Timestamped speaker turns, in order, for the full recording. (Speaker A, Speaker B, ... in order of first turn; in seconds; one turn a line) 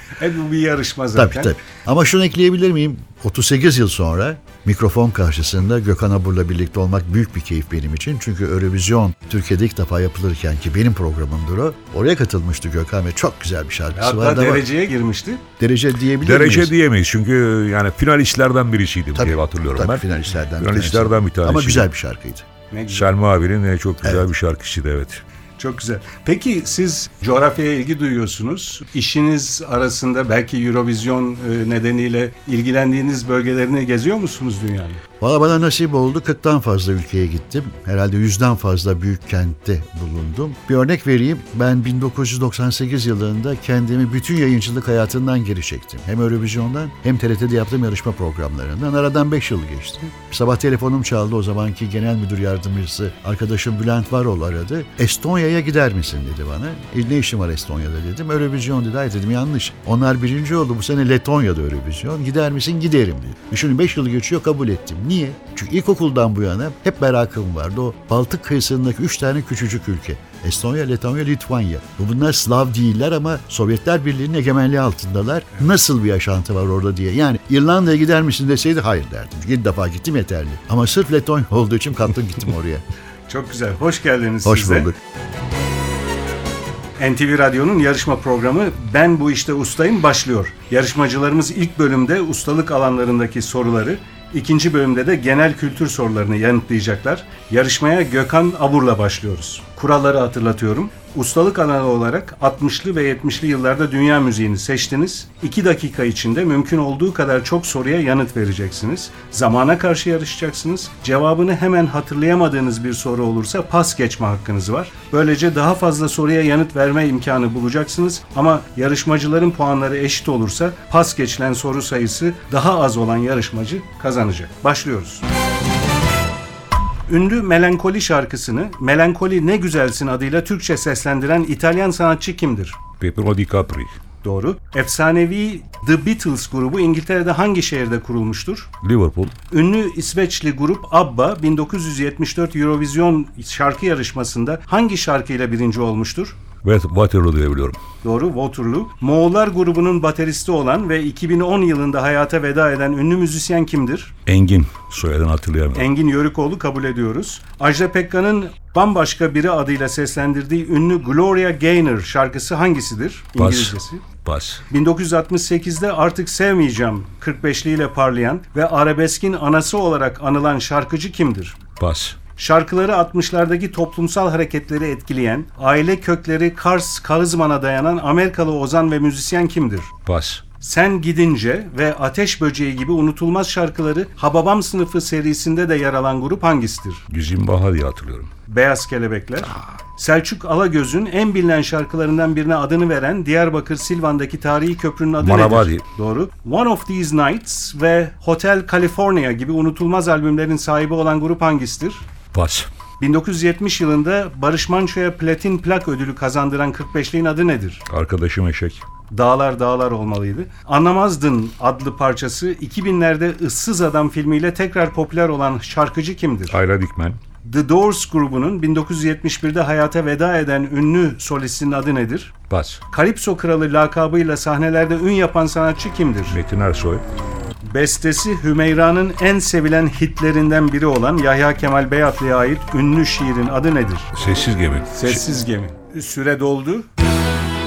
Speaker A: 0.2-1.5
Speaker B: 1.1-14.7
Speaker A: 13.9-15.4
Speaker B: 15.6-16.7
Speaker C: 16.2-20.0
Speaker B: 19.1-22.4
Speaker C: 20.6-21.9
Speaker A: 22.7-23.1
Speaker C: 22.9-25.2
Speaker B: 24.0-24.3
Speaker A: 25.6-35.0
Speaker B: 35.2-82.8
Speaker A: 83.3-84.9
Speaker B: 84.4-85.0
Speaker A: 87.0-125.3
Speaker A: 127.1-132.8
Speaker C: 133.0-133.9
Speaker A: 134.2-138.7
Speaker C: 138.8-139.3
Speaker A: 139.5-146.4
Speaker C: 146.6-147.8
Speaker A: 148.0-154.1
Speaker C: 154.2-155.8
Speaker A: 155.7-164.1
Speaker C: 163.4-164.6
Speaker A: 164.7-171.6
Speaker C: 171.8-172.2
Speaker A: 172.3-179.9
Speaker C: 180.1-180.4
Speaker A: 180.6-187.1
Speaker C: 187.1-188.3
Speaker A: 188.5-202.1
Speaker C: 195.2-195.8
Speaker C: 202.3-202.7
Speaker A: 203.0-207.8
Speaker C: 207.9-208.8
Speaker A: 209.1-216.6
Speaker C: 216.5-217.2
Speaker A: 217.4-222.4
Speaker C: 222.5-222.8
Speaker A: 222.9-226.4
Speaker C: 226.3-227.0
Speaker A: 227.6-234.1
Speaker C: 234.1-235.2
Speaker A: 234.9-236.9